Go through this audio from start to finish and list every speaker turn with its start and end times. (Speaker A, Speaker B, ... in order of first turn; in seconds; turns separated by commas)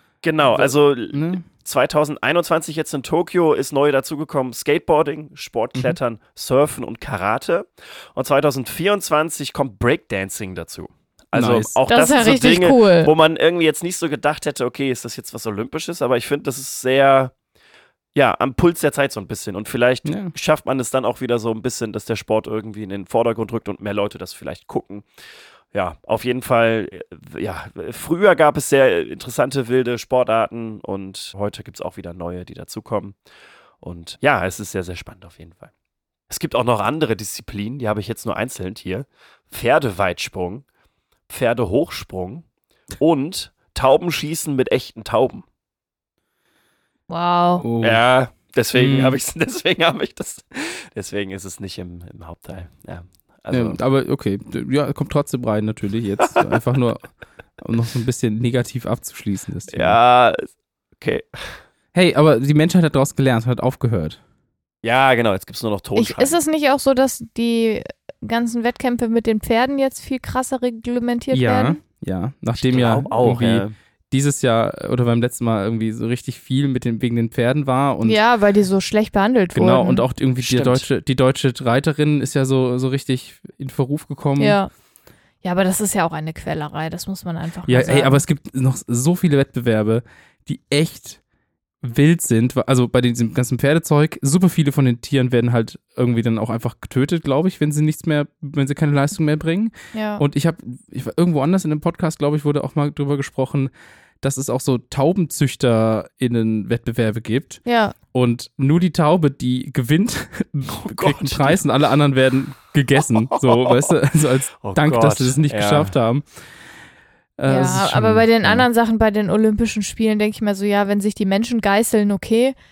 Speaker A: 0.2-17.3, Speaker B: 0.5-1.4, Speaker B: 11.3-11.7, Speaker C: 11.9-13.1, Speaker A: 18.1-25.1, Speaker B: 20.1-20.3, Speaker A: 25.7-33.2, Speaker A: 33.8-35.7, Speaker A: 36.3-40.6, Speaker A: 41.3-42.5, Speaker A: 43.0-45.4, Speaker C: 47.1-47.7, Speaker B: 47.6-48.0, Speaker A: 47.8-53.8, Speaker B: 48.8-49.2, Speaker B: 53.5-60.0, Speaker A: 59.7-61.6, Speaker B: 61.9-64.2, Speaker A: 64.8-66.4, Speaker C: 66.0-71.8, Speaker B: 71.3-78.2, Speaker A: 72.6-73.7, Speaker C: 78.0-80.1, Speaker B: 79.5-84.6, Speaker A: 80.4-80.8, Speaker C: 84.4-84.7, Speaker C: 85.4-88.2, Speaker B: 87.7-91.2, Speaker B: 91.8-103.7, Speaker C: 99.9-100.2, Speaker B: 104.2-107.6, Speaker C: 107.7-108.0, Speaker B: 108.1-116.3, Speaker A: 110.8-111.6, Speaker A: 113.3-113.9, Speaker A: 114.6-115.9, Speaker B: 117.4-118.7, Speaker C: 117.5-122.6